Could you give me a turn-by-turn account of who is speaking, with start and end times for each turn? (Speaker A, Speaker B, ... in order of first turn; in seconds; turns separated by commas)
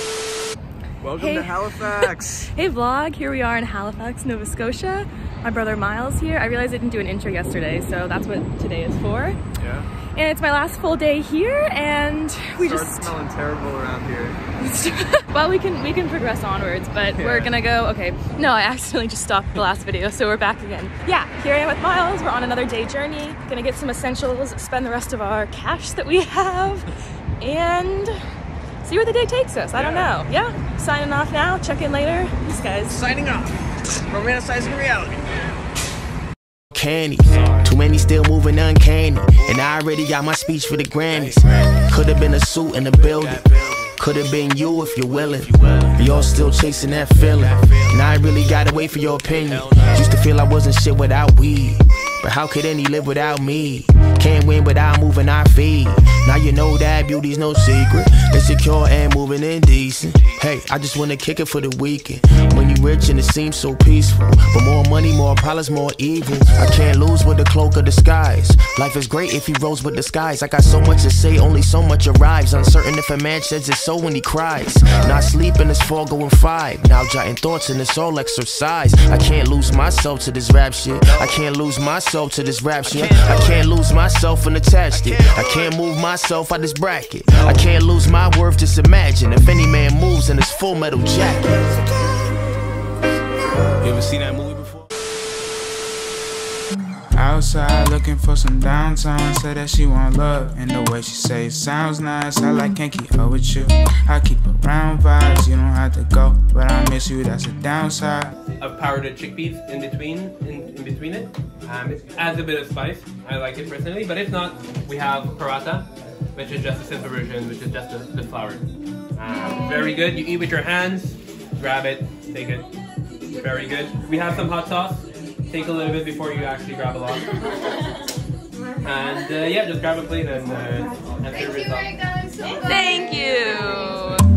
Speaker A: 1.0-2.5, Speaker B: 1.2-9.4, Speaker A: 9.6-9.9, Speaker B: 10.2-13.1, Speaker A: 12.6-14.4, Speaker B: 14.6-26.9, Speaker A: 17.1-17.5, Speaker B: 27.4-28.1, Speaker B: 28.8-33.0, Speaker C: 29.8-30.0, Speaker D: 36.7-91.8, Speaker D: 93.8-94.9, Speaker E: 97.1-108.3, Speaker C: 108.6-122.7, Speaker C: 123.3-127.4, Speaker C: 128.8-132.1, Speaker B: 132.6-134.2